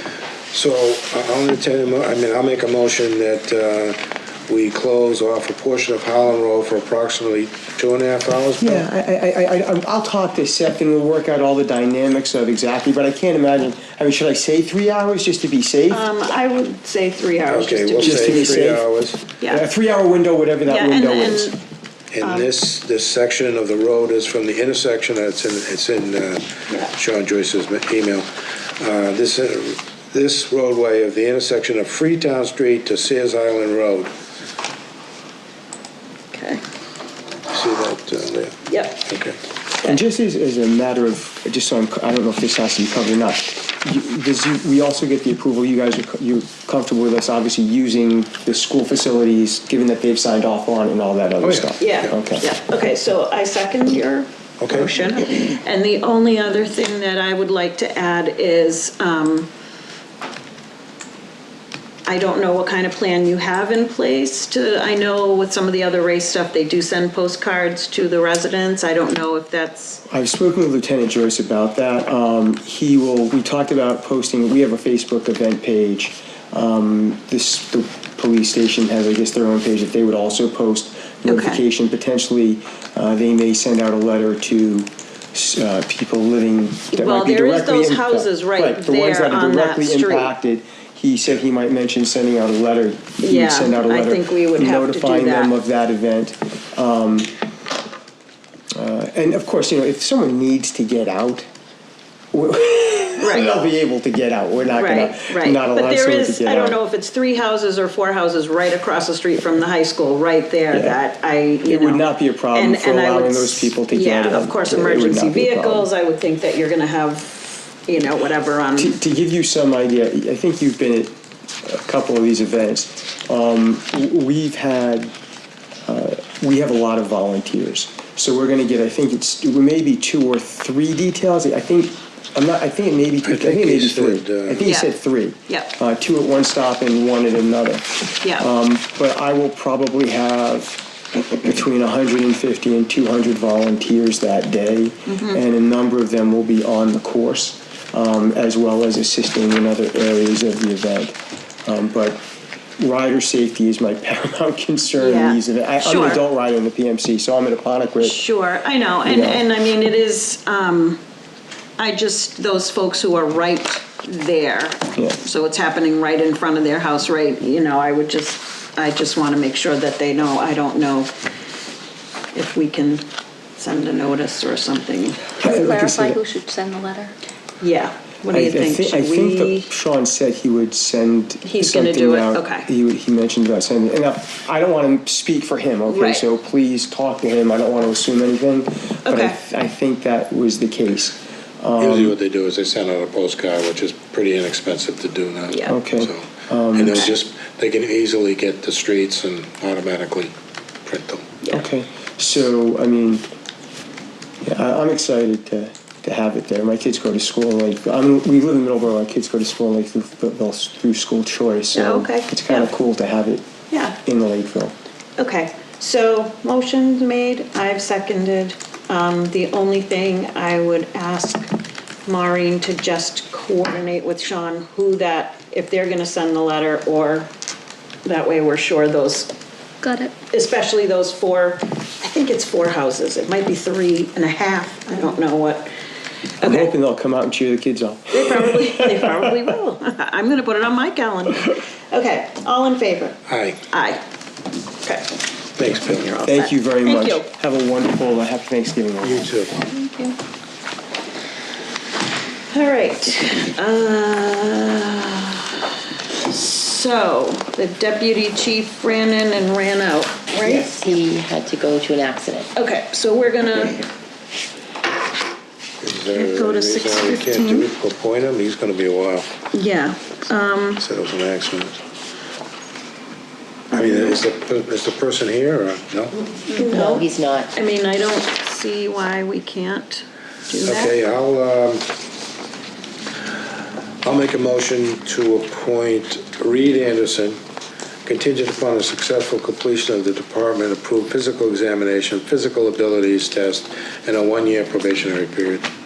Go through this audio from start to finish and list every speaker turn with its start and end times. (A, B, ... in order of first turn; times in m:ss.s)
0:00.5-0:08.8 A
0:08.6-0:16.0 B
0:15.9-0:18.8 C
0:17.5-0:19.2 A
0:18.0-0:18.8 B
0:19.4-0:19.7 C
0:19.4-0:21.5 B
0:20.6-0:21.6 C
0:22.1-0:28.3 A
0:22.2-0:22.5 C
0:28.8-0:34.1 A
0:36.3-0:36.6 C
0:37.5-0:39.4 A
0:38.7-0:39.1 C
0:39.8-0:52.4 B
0:51.4-0:51.7 A
0:51.8-0:59.5 C
0:54.6-0:54.9 A
1:02.0-1:10.0 C
1:10.1-1:37.3 B
1:21.2-1:21.6 C
1:26.9-1:30.3 C
1:33.2-1:35.5 C
1:38.7-1:41.5 B
1:42.3-1:46.8 B
1:43.2-1:43.6 C
1:44.7-1:59.0 C
1:50.7-1:51.0 B
1:51.6-1:55.9 B
1:58.8-2:05.1 B
2:05.8-2:32.2 B
2:13.2-2:14.6 A
2:14.6-2:15.0 C
2:15.5-2:15.7 C
2:18.1-2:18.5 C
2:25.1-2:25.4 C
2:32.8-2:38.3 B
2:35.0-2:36.2 C
2:38.0-2:41.0 C
2:39.0-2:39.4 B
2:41.8-2:51.1 C
2:52.3-2:55.2 C
2:55.4-2:56.2 B
2:55.4-2:57.1 D
2:57.6-2:59.7 C
2:58.3-3:12.1 B
3:01.4-3:02.7 C
3:05.9-3:06.2 C
3:09.0-3:09.4 C
3:11.8-3:20.3 A
3:15.5-3:15.8 C
3:15.7-3:17.1 B
3:20.8-3:21.3 A
3:21.5-3:23.2 B
3:24.4-3:33.5 B
3:31.7-3:32.7 C
3:33.7-3:34.0 C
3:34.0-3:34.7 B
3:35.2-3:41.5 C
3:42.0-3:47.3 C
3:48.0-3:49.3 C
3:49.8-3:50.1 D
3:50.3-3:55.7 C
3:56.4-3:56.7 C
3:56.4-3:59.4 B
3:58.1-4:04.0 C
4:03.3-4:03.6 A
4:04.8-4:05.1 C
4:05.6-4:06.0 A
4:05.6-4:07.2 C
4:06.2-4:09.3 B
4:09.0-4:09.6 A
4:09.7-4:10.1 D
4:12.5-4:15.7 C
4:16.2-4:21.0 C
4:20.4-4:22.5 E
4:22.5-4:23.9 C
4:25.8-4:29.3 A
4:26.1-4:27.7 C
4:29.5-4:30.8 C
4:30.8-4:31.8 A
4:33.7-4:36.2 A
4:36.5-4:40.9 C
4:36.6-4:37.5 E
4:40.6-4:41.9 A
4:44.0-4:47.4 A
4:48.0-4:55.7 A